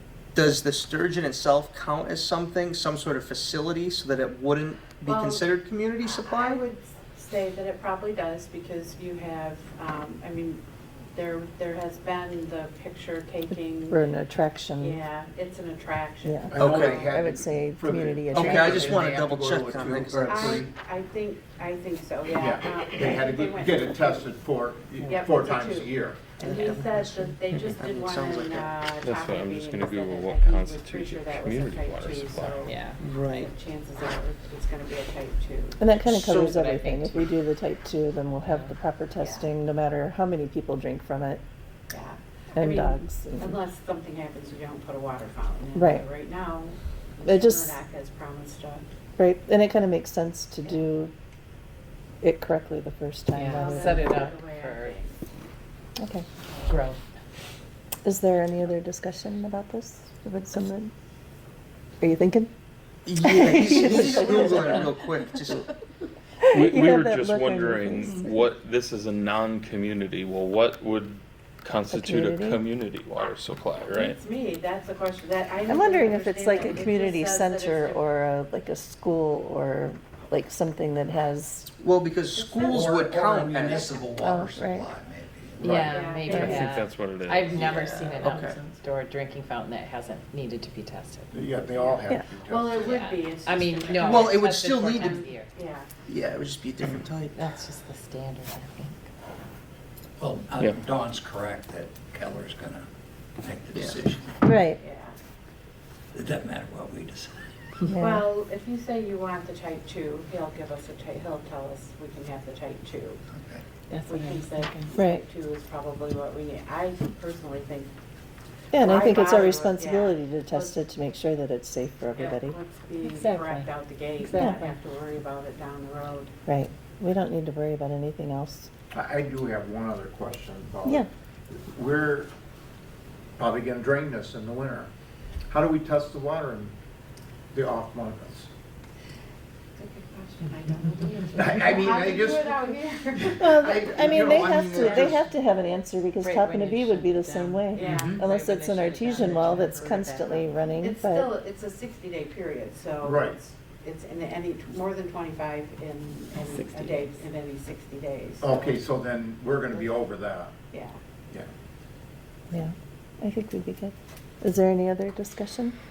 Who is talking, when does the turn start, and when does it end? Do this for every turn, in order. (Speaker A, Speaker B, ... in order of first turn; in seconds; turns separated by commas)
Speaker A: 0.3-6.6, Speaker B: 5.0-5.5, Speaker B: 6.0-14.0, Speaker C: 13.9-15.0, Speaker B: 14.8-17.1, Speaker C: 16.2-18.9, Speaker D: 16.5-20.7, Speaker A: 16.6-17.1, Speaker E: 18.3-19.2, Speaker A: 18.4-20.6, Speaker B: 20.2-24.4, Speaker D: 22.4-26.8, Speaker B: 25.0-35.8, Speaker E: 26.4-27.2, Speaker A: 26.9-28.8, Speaker F: 29.0-32.7, Speaker E: 32.6-33.0, Speaker A: 33.0-33.5, Speaker C: 35.8-41.4, Speaker E: 36.0-37.3, Speaker E: 38.5-38.7, Speaker B: 39.2-39.5, Speaker B: 41.9-48.8, Speaker C: 42.5-43.6, Speaker C: 45.7-46.0, Speaker C: 47.2-47.8, Speaker C: 49.2-51.1, Speaker C: 52.2-54.2, Speaker E: 53.3-54.9, Speaker B: 53.5-55.2, Speaker C: 56.0-56.2, Speaker E: 56.7-57.0, Speaker C: 58.0-60.9, Speaker C: 62.0-62.5, Speaker A: 63.0-65.7, Speaker C: 63.1-65.0, Speaker C: 66.4-68.3, Speaker F: 66.5-74.2, Speaker C: 71.9-72.6, Speaker B: 73.9-78.0, Speaker C: 75.7-81.7, Speaker A: 81.8-84.0, Speaker B: 82.3-84.1, Speaker G: 82.6-86.1, Speaker C: 84.2-84.9, Speaker E: 85.6-91.3, Speaker F: 85.6-88.1, Speaker B: 85.8-86.7, Speaker A: 87.5-88.6, Speaker D: 91.3-93.0, Speaker B: 91.8-95.9, Speaker E: 92.8-95.5, Speaker A: 94.0-95.2, Speaker A: 96.0-97.5, Speaker E: 97.3-99.0, Speaker G: 100.2-102.9, Speaker G: 103.4-104.5, Speaker A: 103.7-104.0, Speaker C: 104.4-104.8, Speaker B: 104.8-105.2, Speaker G: 106.1-107.5, Speaker C: 107.8-108.2, Speaker B: 107.9-113.2, Speaker G: 113.3-113.6, Speaker E: 113.9-114.9, Speaker B: 114.0-117.9, Speaker C: 114.9-115.2, Speaker C: 118.7-122.6, Speaker B: 118.8-120.8, Speaker B: 122.2-126.3, Speaker E: 123.0-124.7, Speaker C: 126.5-128.7, Speaker D: 128.9-132.3, Speaker D: 133.4-134.9, Speaker D: 135.5-136.7, Speaker D: 137.5-138.5, Speaker B: 139.8-144.8, Speaker D: 141.3-142.5, Speaker D: 143.3-145.2, Speaker C: 143.4-151.3, Speaker E: 144.7-145.2, Speaker E: 146.2-150.4, Speaker B: 147.8-148.2, Speaker B: 150.8-158.8, Speaker D: 153.0-153.4, Speaker E: 156.5-156.8, Speaker D: 158.4-160.5, Speaker B: 160.7-161.0, Speaker C: 162.5-165.7